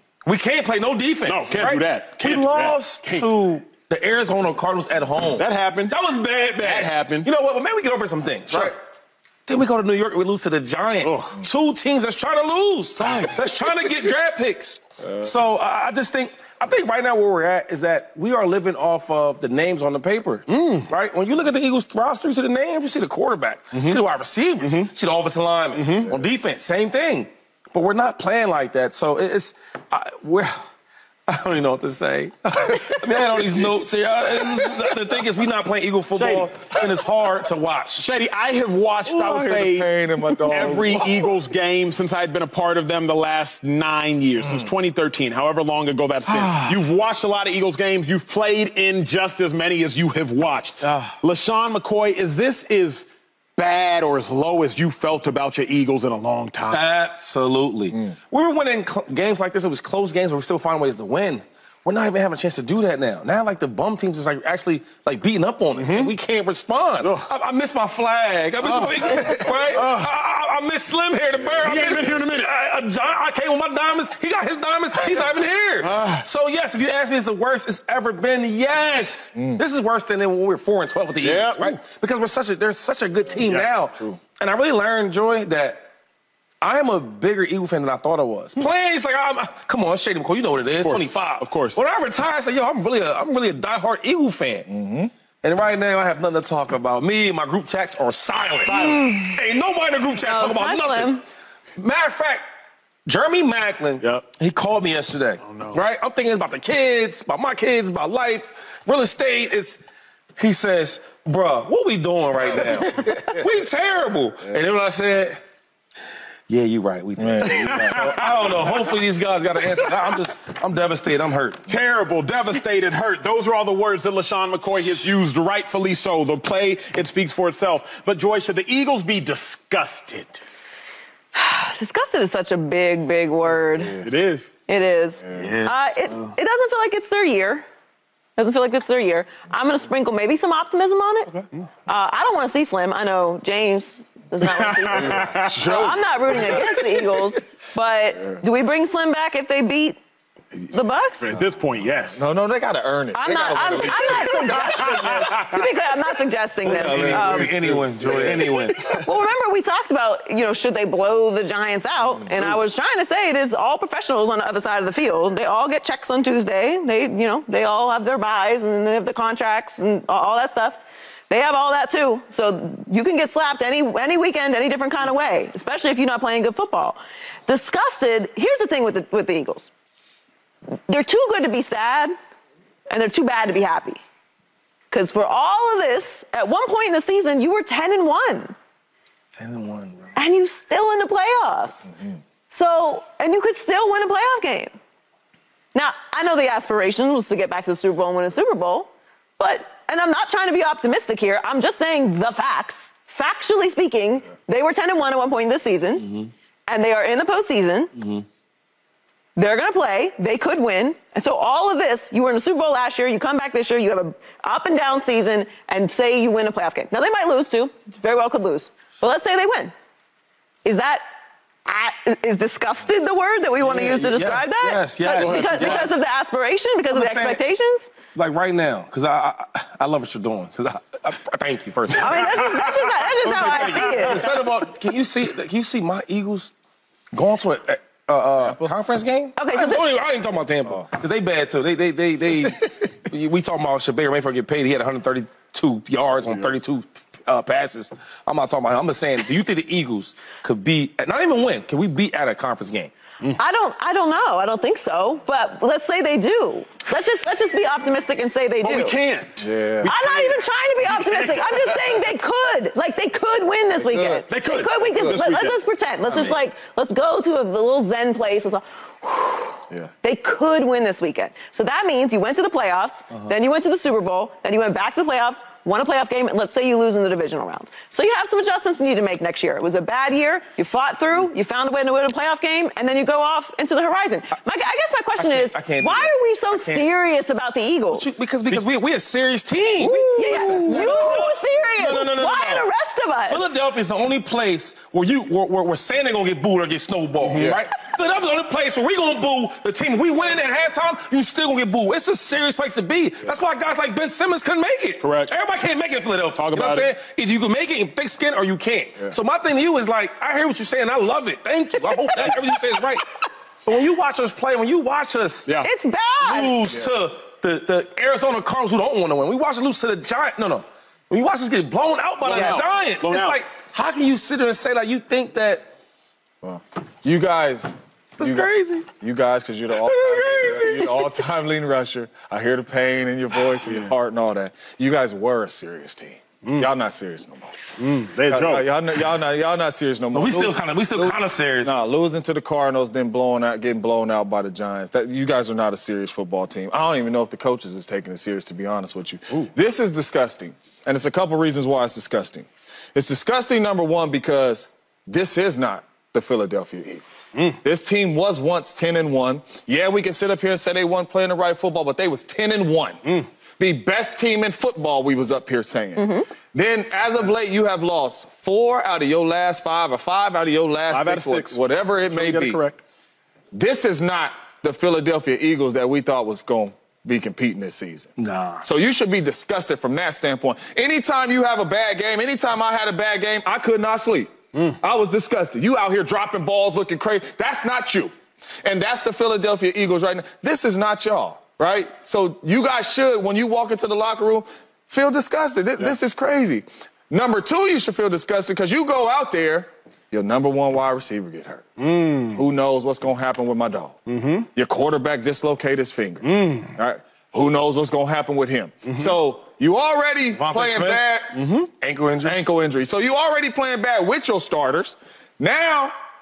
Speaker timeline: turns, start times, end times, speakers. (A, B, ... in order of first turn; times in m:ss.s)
0:00.2-0:08.8 A
0:01.2-0:03.3 B
0:05.3-0:05.9 B
0:06.6-0:07.3 B
0:09.5-0:30.6 A
0:11.0-0:11.4 B
0:13.0-0:13.4 B
0:20.5-0:20.9 B
0:23.7-0:24.0 B
0:24.6-0:24.9 B
0:25.7-0:26.2 B
0:31.3-0:38.0 A
0:36.1-0:36.5 B
0:38.0-0:39.9 B
0:39.0-0:41.1 C
0:40.5-0:56.8 B
0:46.3-0:46.8 A
0:50.8-0:51.1 A
0:56.7-1:25.9 A
1:05.7-1:06.1 B
1:07.0-1:07.3 B
1:08.6-1:10.1 B
1:11.6-1:12.5 B
1:11.6-1:11.9 C
1:15.8-1:16.2 B
1:21.2-1:21.8 B
1:23.4-1:23.7 B
1:26.6-1:34.7 A
1:30.7-1:31.8 B
1:34.7-1:35.1 C
1:35.4-1:41.2 A
1:38.6-1:39.2 B
1:38.7-1:39.4 D
1:40.2-1:41.2 D
1:41.8-1:42.4 A
1:43.0-1:49.8 A
1:44.0-1:44.2 B
1:45.4-1:45.8 B
1:50.4-1:55.4 A
1:56.5-2:01.6 A
1:57.2-1:58.0 C
1:57.5-1:58.9 B
2:01.7-2:10.4 B
2:11.3-2:14.0 D
2:14.0-2:14.5 B
2:14.7-2:17.6 D
2:15.3-2:16.3 A
2:18.4-2:21.3 D
2:21.8-2:30.0 D
2:24.4-2:27.0 B
2:30.5-2:32.2 B
2:30.7-2:31.3 D
2:32.1-2:35.3 C
2:33.1-2:37.5 D
2:34.0-2:35.7 B
2:36.6-2:39.0 A
2:36.7-2:38.6 C
2:36.8-2:39.0 B
2:38.5-2:59.7 D
3:00.9-3:02.1 D
3:02.9-3:04.0 D
3:04.9-3:08.5 D
3:09.4-3:10.2 A
3:10.2-3:14.7 D
3:15.7-3:26.1 D
3:26.0-3:26.3 A
3:26.7-3:27.9 D
3:28.0-3:28.2 A
3:29.4-3:39.7 D
3:40.6-3:41.0 D
3:41.6-3:47.9 D
3:43.6-3:46.0 A
3:45.0-3:46.0 B
3:46.9-3:47.4 A
3:48.1-3:56.5 A
3:52.0-3:54.3 D
3:52.2-3:54.2 B
3:57.1-4:12.9 A
3:59.4-3:59.8 D
4:13.4-4:18.9 D
4:18.6-4:22.1 B
4:19.4-4:19.9 C
4:19.8-4:48.2 D
4:23.8-4:24.2 C
4:24.3-4:25.6 B
4:26.1-4:26.4 A
4:45.2-4:46.9 A
4:47.9-4:52.7 A
4:49.8-4:51.2 C
4:50.2-4:53.4 D
4:50.3-4:51.0 B
4:53.2-5:13.1 A
4:57.2-4:57.6 B
4:57.4-4:57.6 C
5:05.0-5:05.3 B
5:06.3-5:06.9 B
5:13.6-5:15.5 A
5:15.6-5:16.6 D
5:16.2-5:25.7 A
5:22.2-5:23.4 B
5:26.4-5:37.6 C
5:28.2-5:28.9 A
5:29.7-5:31.1 A
5:33.6-5:33.9 B
5:36.4-5:36.7 B
5:37.8-5:38.6 B
5:38.3-5:57.0 C
5:40.1-5:41.8 A
5:57.6-6:03.0 C
6:03.6-6:12.6 C
6:06.0-6:06.2 D
6:10.9-6:12.8 B
6:13.5-6:28.1 C
6:18.2-6:18.6 A
6:28.6-6:41.6 C
6:41.8-6:42.4 B
6:42.3-6:44.0 C
6:44.0-6:44.5 B
6:44.5-6:51.4 C
6:46.2-6:46.8 B
6:48.8-6:49.1 B
6:50.3-6:51.1 A
6:51.3-6:51.7 B
6:51.8-6:52.4 A
6:52.2-6:55.9 C